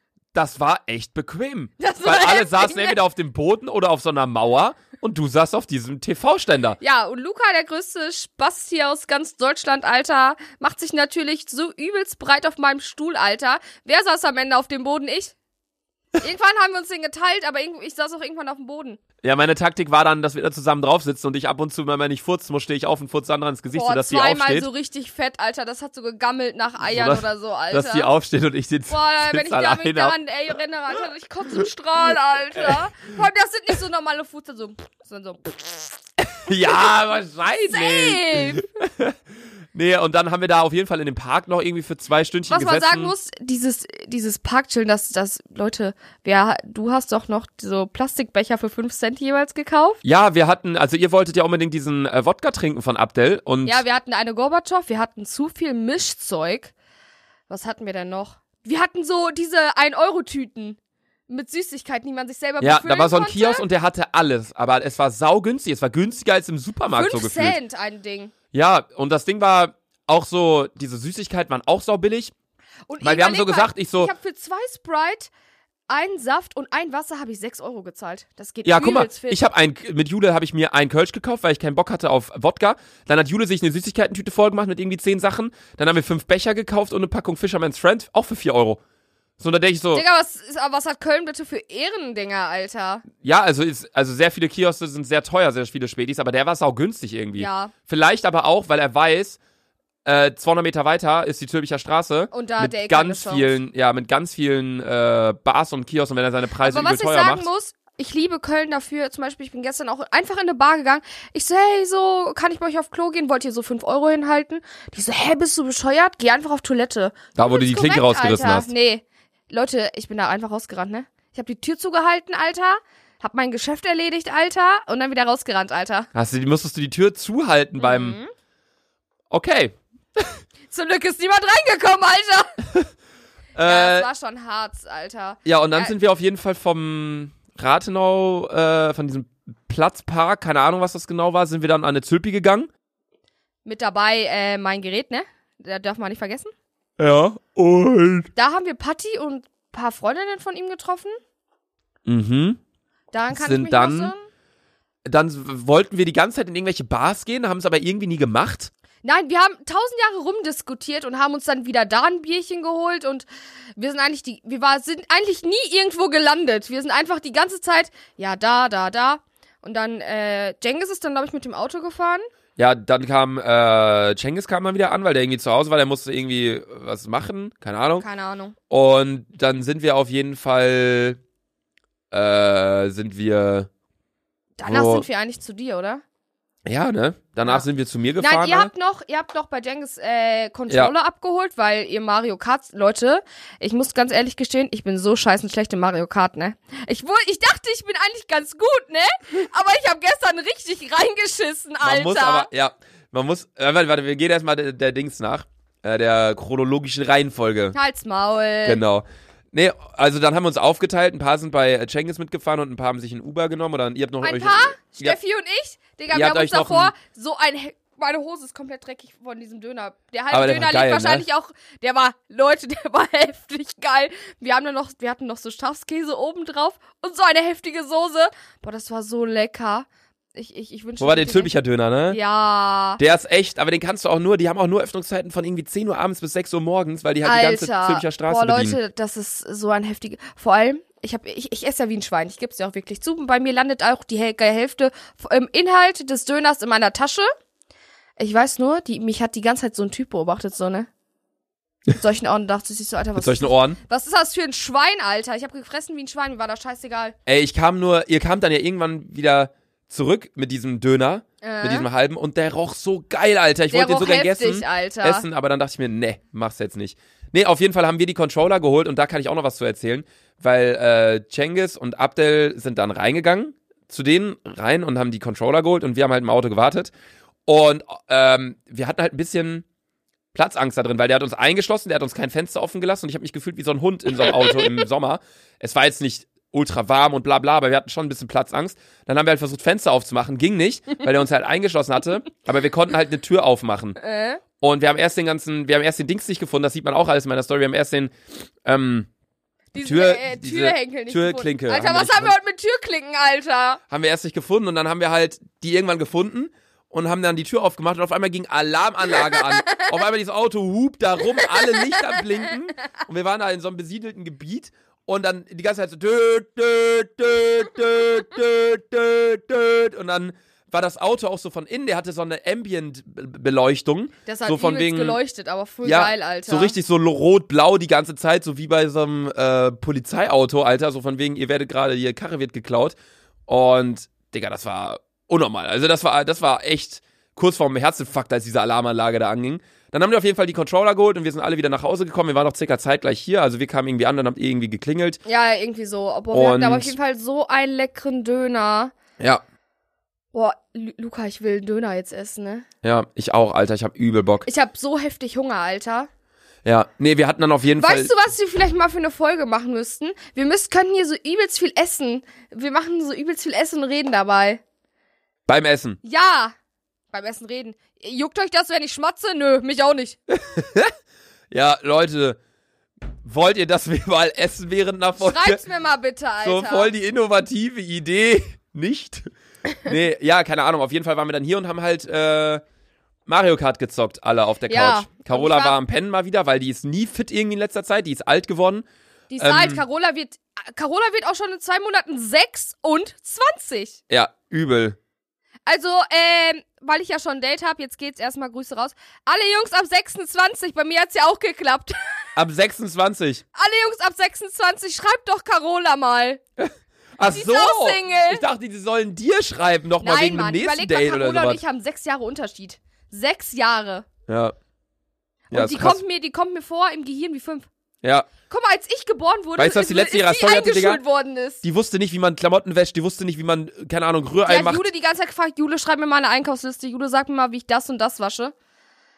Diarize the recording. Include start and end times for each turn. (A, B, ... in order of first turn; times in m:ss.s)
0:00.3-0:06.8 A
0:01.8-0:03.0 B
0:06.8-0:15.4 B
0:16.2-0:19.0 B
0:19.2-0:24.7 A
0:23.7-0:28.1 B
0:26.8-0:30.2 A
0:28.9-0:36.0 B
0:36.3-0:39.2 A
0:37.7-0:38.6 B
0:39.7-0:43.1 A
0:42.5-0:50.0 B
0:50.0-0:53.8 A
0:53.6-0:56.7 B
0:57.5-1:03.6 B
1:02.6-1:07.6 A
1:06.9-1:08.3 B
1:08.5-1:12.3 A
1:12.9-1:15.3 B
1:13.0-1:14.1 A
1:15.9-1:19.4 B
1:18.6-1:28.8 A
1:29.4-1:30.0 A
1:29.9-1:33.0 B
1:33.2-1:39.4 A
1:37.4-1:37.7 B
1:40.0-1:47.5 A
1:42.3-1:43.6 B
1:46.6-2:06.1 B
1:57.3-1:58.7 A
2:06.1-2:08.2 A
2:07.8-2:08.3 B
2:09.3-2:10.4 A
2:10.7-2:12.5 B
2:13.6-2:14.1 A
2:13.6-2:15.9 B
2:15.4-2:22.7 A
2:23.6-2:26.5 B
2:27.0-2:28.3 A
2:28.4-2:31.2 B
2:32.0-2:32.6 A
2:33.1-2:34.3 B
2:33.3-2:34.1 A
2:35.0-2:38.7 A
2:39.0-2:52.2 B
2:52.6-2:58.0 A
2:58.0-2:58.6 B
2:58.7-3:01.2 A
3:02.1-3:03.7 A
3:04.6-3:06.0 B
3:04.6-3:05.0 A
3:06.6-3:08.7 A
3:08.2-3:22.5 B
3:21.8-3:27.8 A
3:27.7-3:28.8 B
3:28.6-3:35.2 A
3:34.2-3:51.5 B
3:36.1-3:36.9 A
3:40.3-3:41.2 A
3:51.0-3:52.2 A
3:52.1-3:53.0 B
3:53.0-3:58.8 A
3:57.2-4:07.3 B
4:08.2-4:10.9 B
4:11.9-4:17.2 B
4:13.2-4:13.8 A
4:17.2-4:36.9 A
4:21.4-4:21.9 B
4:23.7-4:25.2 B
4:37.4-4:39.6 A
4:40.3-4:54.0 A
4:44.2-4:44.8 B
4:54.0-4:54.4 B
4:54.6-4:58.1 A
4:58.6-4:59.1 A
4:59.7-5:03.8 B
4:59.8-5:02.4 A
5:03.9-5:25.2 A
5:09.1-5:09.9 B
5:11.4-5:12.2 B
5:24.2-5:26.7 B
5:25.8-5:33.0 A
5:33.5-5:45.2 A
5:45.2-5:48.9 B
5:46.3-5:46.9 A
5:50.3-5:52.7 B
5:52.8-5:54.5 A
5:54.4-5:56.1 B
5:56.6-5:58.1 A
5:57.8-6:04.6 B
6:05.5-6:06.0 A
6:06.0-6:06.5 B
6:07.1-6:10.2 B
6:10.3-6:10.9 A
6:11.5-6:12.4 A
6:13.2-6:15.6 A
6:15.2-6:16.9 B
6:16.4-6:19.3 A
6:19.8-6:22.6 A
6:23.2-6:28.8 A
6:24.7-6:25.8 B
6:29.3-6:34.0 B
6:29.4-6:29.8 A
6:34.1-6:35.0 A
6:35.6-6:42.0 B
6:42.4-6:43.4 A
6:43.5-6:46.4 B
6:46.6-6:51.6 A
6:47.3-6:48.4 B
6:50.0-6:54.1 B
6:54.3-6:54.5 A
6:55.5-6:57.7 B
6:55.5-6:56.0 A
6:58.0-6:58.3 A
6:58.5-7:01.6 B
6:59.6-7:01.0 A
7:01.6-7:04.9 A
7:04.4-7:08.5 B